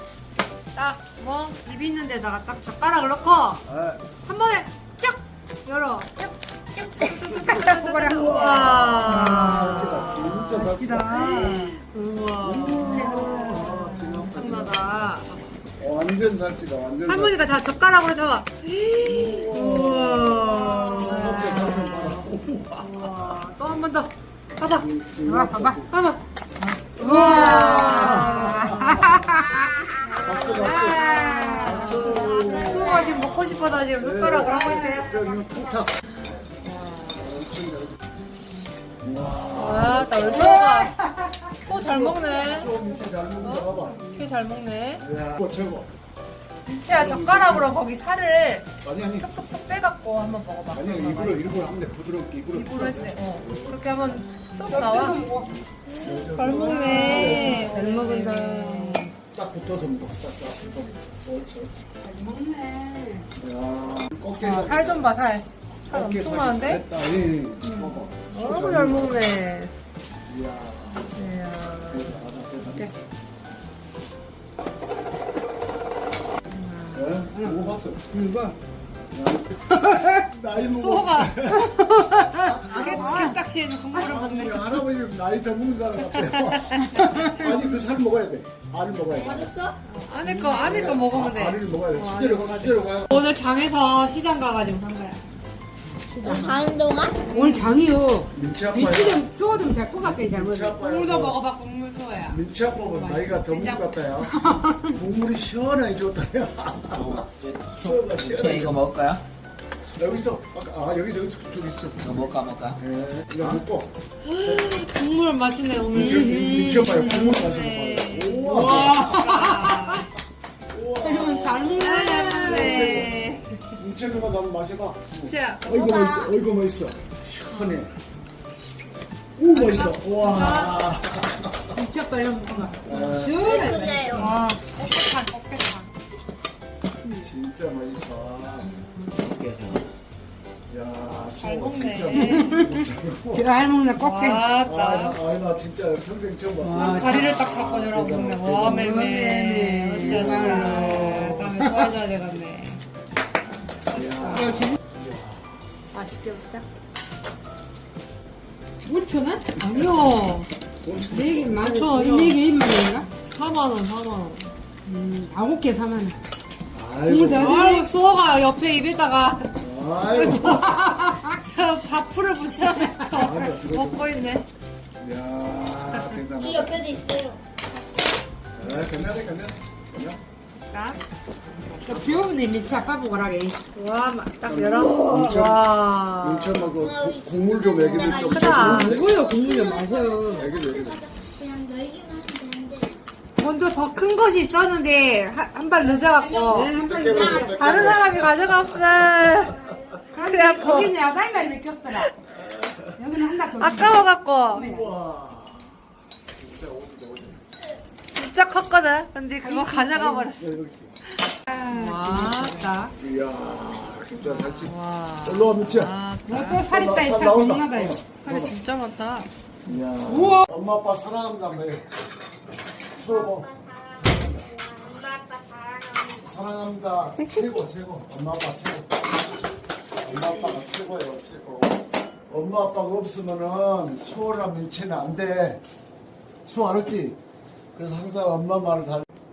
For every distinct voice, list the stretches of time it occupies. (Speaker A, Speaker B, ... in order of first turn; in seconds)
Speaker A: 0.7-3.6, 4.2-15.4, 17.1-22.2, 22.8-24.8, 26.9-29.0, 29.9-35.1, 36.5-37.2, 39.5-40.9, 41.6-42.7, 43.4-45.0, 46.6-51.6, 52.5-55.2, 55.9-59.0, 64.4-66.8, 67.6-69.7, 71.0-72.2, 76.5-77.1, 80.7-81.4, 82.7-84.6, 86.1-87.3, 90.0-95.2, 97.3-97.7, 100.8-104.0, 114.2-120.1, 121.7-123.6, 125.2-126.3, 129.5-130.8, 134.1-135.9, 141.4-142.6, 144.0-145.2, 146.7-152.8, 153.9-154.6, 155.9-156.6, 159.6-160.5, 161.7-162.4, 163.3-164.5, 167.3-174.4, 180.7-181.0, 183.7-186.7, 188.1-188.9, 193.4-196.7, 197.3-200.9, 203.6-204.7, 208.1-210.4, 211.4-212.7, 214.2-216.6, 218.2-219.3
Speaker B: 3.6-4.1, 8.0-11.3, 12.4-14.9, 15.8-17.4, 19.0-23.4, 24.7-26.0, 27.1-29.2, 30.2-35.9, 37.1-38.0, 39.0-40.7, 41.7-44.0, 45.0-45.9, 46.9-47.7, 48.8-49.3, 50.7-53.9, 55.2-57.8, 59.3-61.7, 63.4-65.1, 65.9-69.2, 70.3-71.3, 71.9-72.9, 76.9-78.1, 79.1-79.6, 80.2-83.4, 83.9-89.5, 90.5-93.2, 98.3-99.2, 100.1-101.4, 102.3-108.8, 109.8-114.7, 115.9-119.3, 120.7-121.8, 122.3-127.9, 129.4-131.8, 132.8-133.8, 137.2-138.8, 140.7-143.5, 144.6-149.0, 150.0-151.5, 153.9-155.8, 160.8-161.9, 166.7-167.6, 169.6-170.8, 173.1-174.3, 175.0-177.1, 178.6-180.2, 181.8-182.4, 184.4-189.2, 190.3-191.0, 196.5-199.9, 202.3-203.0, 204.5-207.4, 210.3-210.9, 213.0-215.9, 216.7-218.5, 219.6-221.9, 222.9-224.6, 226.2-229.0, 230.0-235.6, 236.4-237.2, 237.7-239.1
Speaker C: 7.2-11.8, 12.8-14.0, 25.2-26.0, 26.7-29.9, 30.5-32.0, 34.7-35.5, 40.4-41.5, 54.6-55.5, 56.4-59.1, 62.0-63.3, 77.3-78.6, 79.7-80.2, 81.5-83.4, 83.9-84.2, 89.9-90.6, 96.1-96.6, 97.3-100.9, 104.2-104.9, 118.5-120.0, 121.0-123.2, 131.7-134.6, 142.2-144.5, 146.6-147.3, 148.6-151.9, 154.3-154.8, 158.8-159.6, 160.9-163.1, 164.8-166.2, 167.0-167.9, 181.6-183.6, 188.7-190.5, 196.2-198.0, 200.1-202.1, 202.9-204.9, 209.4-210.3, 211.6-212.9, 216.3-218.0, 220.0-220.4
Speaker D: 30.2-30.7, 31.9-33.1, 89.2-89.8, 96.1-97.2, 133.4-134.3, 176.4-177.4, 186.7-193.0, 196.3-197.8, 199.7-200.0, 223.0-226.3
Speaker E: 106.9-109.2, 112.0-112.8, 139.1-139.9